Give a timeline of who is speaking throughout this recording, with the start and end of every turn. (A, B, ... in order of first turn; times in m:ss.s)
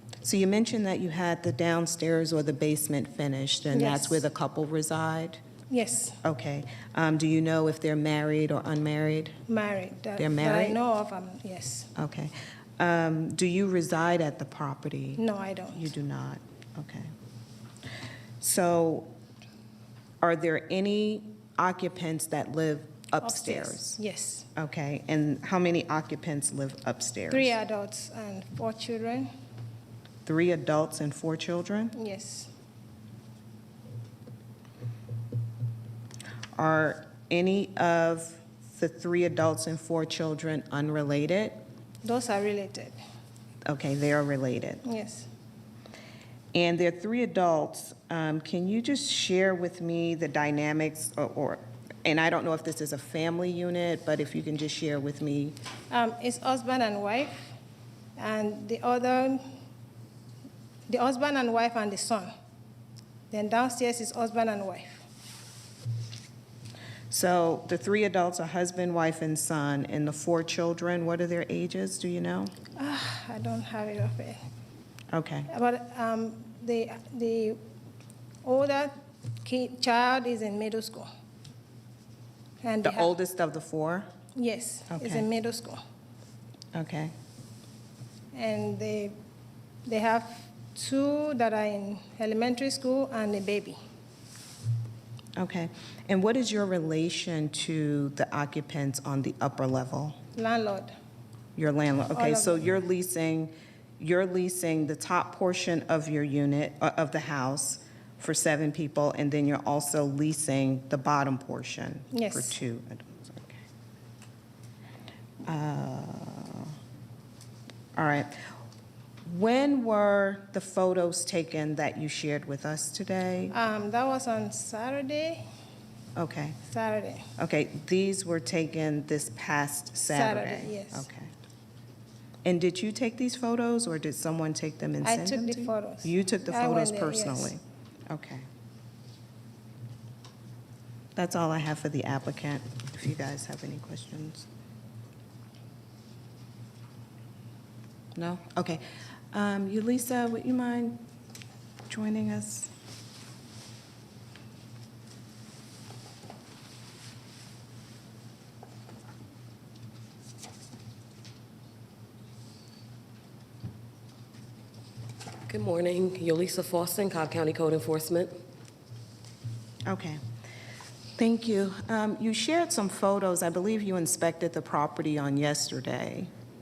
0:00.2-0:05.4 A
0:03.7-0:04.2 B
0:05.7-0:06.2 B
0:06.2-0:09.3 A
0:09.5-0:11.9 B
0:10.2-0:10.8 A
0:11.9-0:17.1 A
0:15.2-0:15.8 B
0:18.4-0:19.1 A
0:20.2-0:24.0 A
0:23.2-0:24.5 B
0:24.6-0:27.5 A
0:27.3-0:29.3 B
0:30.2-0:31.9 A
0:31.9-0:32.5 B
0:36.6-0:41.6 A
0:42.0-0:43.0 B
0:43.6-0:44.8 A
0:44.8-0:45.3 B
0:46.5-0:55.6 A
0:55.9-0:57.5 B
0:58.2-0:59.4 B
1:00.9-1:02.3 B
1:03.3-1:05.0 B
1:07.1-1:12.5 A
1:12.8-1:14.4 B
1:15.1-1:15.5 A
1:15.5-1:17.6 B
1:18.4-1:21.1 B
1:22.6-1:23.1 B
1:22.8-1:24.1 A
1:24.3-1:25.8 B
1:24.9-1:25.2 A
1:26.7-1:27.1 A
1:28.3-1:29.1 B
1:29.8-1:33.8 B
1:35.4-1:40.2 A
1:40.3-1:40.9 B
1:41.6-1:53.6 A
1:42.1-1:42.7 B
1:52.1-1:52.6 B
1:55.4-1:56.7 A
1:58.0-1:58.3 A
1:59.2-2:03.5 A
2:03.5-2:05.4 B
2:06.2-2:06.6 A
2:06.6-2:07.2 B
2:07.4-2:11.3 A
2:10.0-2:11.0 B
2:12.4-2:18.4 A
2:15.0-2:17.5 B
2:21.1-2:24.5 A
2:28.1-2:31.0 A
2:31.9-2:32.7 A
2:45.5-2:48.3 C
2:49.8-2:50.2 A
2:51.2-2:56.3 A